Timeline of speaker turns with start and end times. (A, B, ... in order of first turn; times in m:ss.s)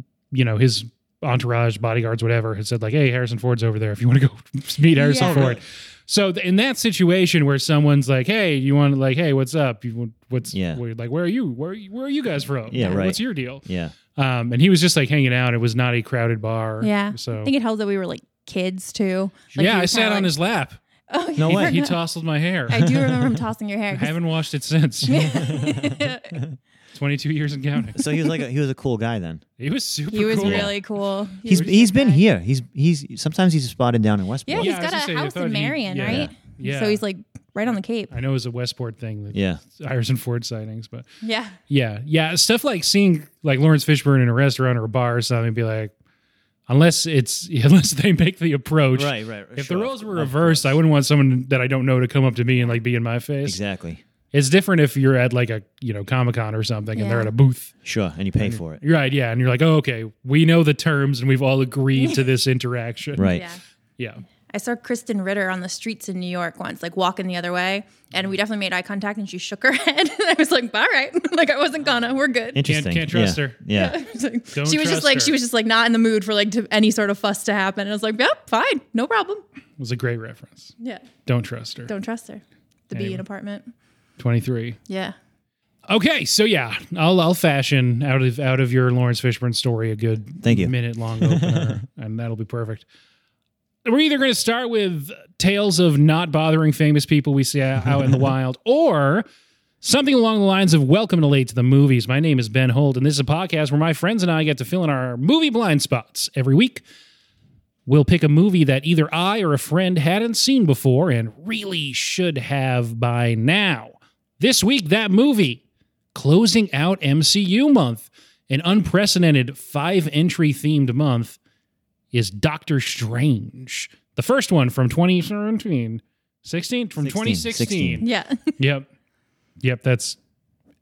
0:00.3-0:17.5 A
0:05.0-0:05.5 B
0:05.2-0:05.6 C
0:10.5-0:10.8 C
0:12.7-0:13.9 C
0:12.8-0:13.1 B
0:16.8-0:20.3 B
0:19.5-0:20.8 A
0:21.1-0:22.0 B
0:21.4-0:21.8 C
0:21.4-0:22.9 A
0:22.7-0:24.2 B
0:22.7-0:23.4 C
0:23.9-0:25.5 A
0:25.0-0:26.4 B
0:25.3-0:26.6 C
0:26.9-0:28.0 A
0:27.9-0:29.4 C
0:29.6-0:30.7 A
0:30.1-0:32.2 B
0:30.3-0:30.7 C
0:31.4-0:34.8 C
0:34.5-0:38.1 B
0:34.5-0:37.0 A
0:36.0-0:36.3 C
0:38.1-0:41.1 A
0:39.3-0:39.6 C
0:41.2-0:41.6 B
0:41.7-0:45.9 A
0:46.7-0:53.6 A
0:48.9-0:50.8 C
0:53.4-0:54.0 C
0:54.3-0:57.7 A
0:57.0-0:57.3 B
0:57.8-0:58.8 C
0:58.4-1:03.3 A
1:02.0-1:02.2 B
1:03.2-1:03.4 C
1:03.2-1:03.6 B
1:04.0-1:04.2 A
1:04.5-1:12.6 B
1:12.5-1:14.0 C
1:12.6-1:13.6 A
1:13.7-1:19.4 B
1:14.5-1:15.3 A
1:19.8-1:20.7 A
1:21.2-1:21.9 A
1:21.9-1:23.7 B
1:22.9-1:23.2 A
1:24.2-1:24.8 A
1:24.9-1:25.2 B
1:25.9-1:32.8 A
1:30.4-1:31.8 C
1:33.8-1:39.2 A
1:39.8-1:46.8 A
1:47.8-1:55.6 A
1:56.1-2:01.4 A
2:02.1-2:08.9 A
2:07.0-2:08.0 C
2:08.0-2:08.5 B
2:09.6-2:10.2 A